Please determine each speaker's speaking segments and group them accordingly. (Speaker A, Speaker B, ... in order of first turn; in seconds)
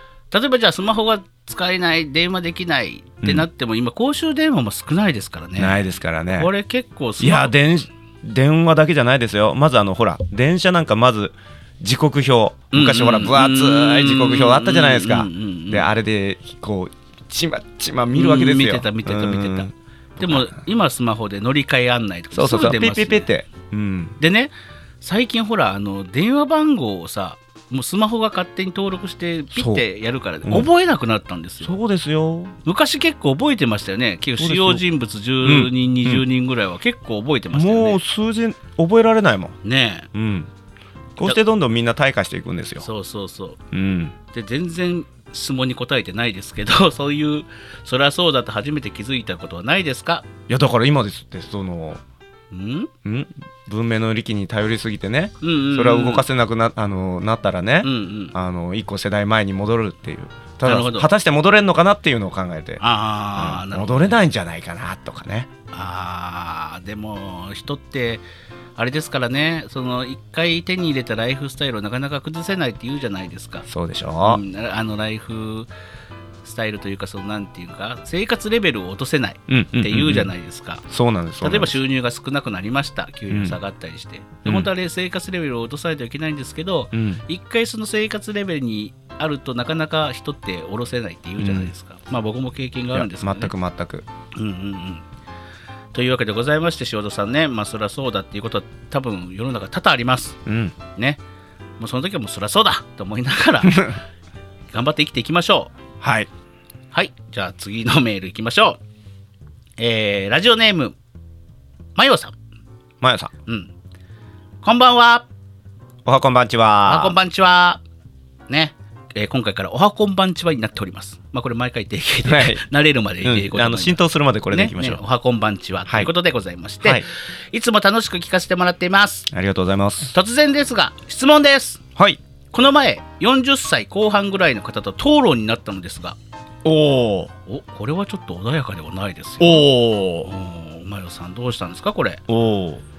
Speaker A: 0.3-5.8, 6.4-7.5, 12.7-15.9, 18.1-23.3, 24.2-31.8, 32.6-38.0, 39.6-40.1, 42.8-43.6, 44.3-50.3, 52.5-52.9, 55.4-56.3, 57.8-58.4, 60.6-61.1, 62.8-64.2, 65.7-68.2, 68.8-73.7, 74.2-75.7, 76.4-80.8, 81.4-93.5, 94.3-95.1, 95.9-100.4, 101.8-103.9, 104.7-105.7, 106.9-108.8, 109.8-111.0, 112.0-112.3, 113.5-113.7, 114.6-115.3, 116.9-117.8, 118.5-129.3, 130.1-131.8, 132.5-136.2, 137.5-139.7, 140.2-142.2
Speaker B: 5.6-6.5, 7.2-20.5, 22.3-24.1, 29.5-29.8, 31.6-32.6, 34.4-34.8, 35.4-36.2, 37.5-39.6, 40.1-40.5, 41.2-42.9, 43.7-44.1, 50.5-52.0, 53.0-62.8, 63.4-65.5, 73.7-74.4, 79.5-80.3, 80.9-81.8, 83.3-83.6, 84.4-84.7, 86.9-87.2, 91.4-91.7, 92.9-94.1, 100.5-100.8, 103.7-103.9, 106.0-106.3, 113.0-113.3, 116.0-117.2, 122.2-122.6, 123.2-125.0, 129.3-130.1, 136.6-137.3, 139.4-140.3, 142.3-142.8